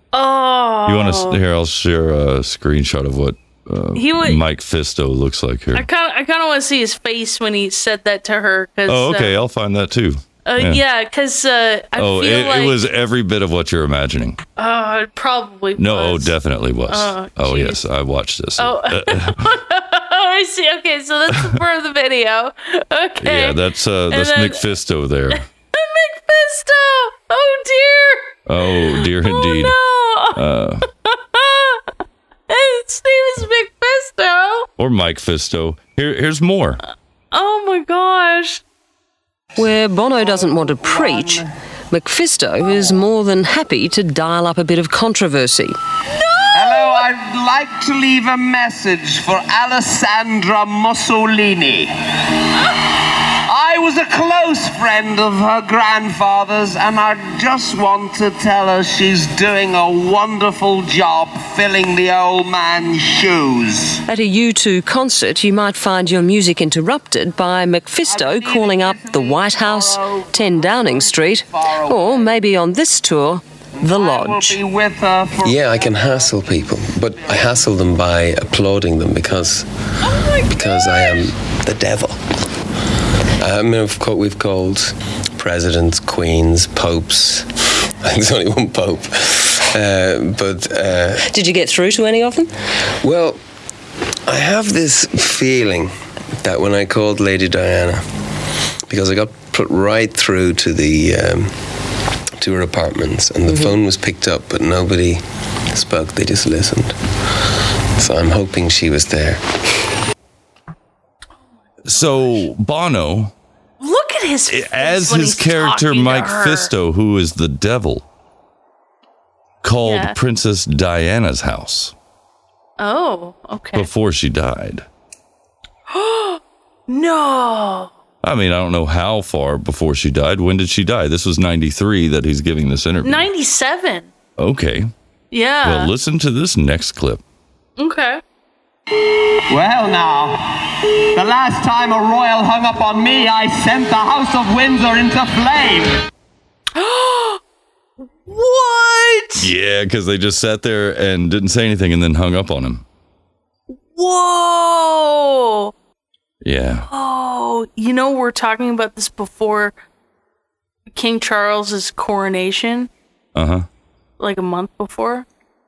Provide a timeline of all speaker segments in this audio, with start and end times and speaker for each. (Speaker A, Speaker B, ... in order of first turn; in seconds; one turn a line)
Speaker A: 0.1-1.4
Speaker B: 0.9-5.9
Speaker A: 4.0-4.4
Speaker A: 5.7-9.3
Speaker B: 8.9-10.8
Speaker A: 10.5-12.8
Speaker B: 12.0-14.4
Speaker A: 14.6-16.3
Speaker B: 15.8-19.5
Speaker A: 16.9-17.8
Speaker A: 18.6-23.6
Speaker B: 23.2-25.4
Speaker A: 24.1-24.6
Speaker A: 25.7-30.4
Speaker B: 28.5-29.8
Speaker B: 30.3-30.9
Speaker A: 31.1-31.8
Speaker A: 32.5-34.7
Speaker B: 34.8-36.8
Speaker A: 37.3-38.6
Speaker C: 39.6-45.7
Speaker A: 46.2-47.0
Speaker D: 46.5-51.9
Speaker D: 53.5-64.0
Speaker C: 64.1-74.6
Speaker D: 68.1-69.3
Speaker D: 71.6-71.9
Speaker D: 73.9-75.9
Speaker E: 75.4-79.7
Speaker A: 80.1-80.5
Speaker E: 80.4-82.2
Speaker E: 83.4-87.5
Speaker E: 88.0-91.2
Speaker C: 91.2-92.5
Speaker E: 93.0-93.4
Speaker E: 94.3-98.0
Speaker E: 98.9-101.5
Speaker E: 102.4-105.2
Speaker C: 103.5-103.7
Speaker E: 105.7-107.0
Speaker E: 108.0-109.4
Speaker B: 111.9-113.3
Speaker A: 111.9-112.5
Speaker A: 113.8-116.7
Speaker B: 114.5-118.0
Speaker B: 119.6-121.9
Speaker A: 119.8-120.2
Speaker A: 122.8-123.9
Speaker B: 123.8-124.8
Speaker A: 125.9-127.9
Speaker B: 128.2-133.3
Speaker A: 133.0-134.1
Speaker B: 134.4-134.9
Speaker A: 135.3-135.9
Speaker B: 135.6-137.2
Speaker A: 137.8-138.2
Speaker D: 139.5-146.0
Speaker A: 146.8-147.4
Speaker A: 148.1-149.5
Speaker B: 149.4-152.8
Speaker A: 153.9-155.7
Speaker B: 156.4-156.9
Speaker A: 156.9-159.7
Speaker A: 160.9-162.9
Speaker B: 163.3-163.7
Speaker A: 164.2-165.3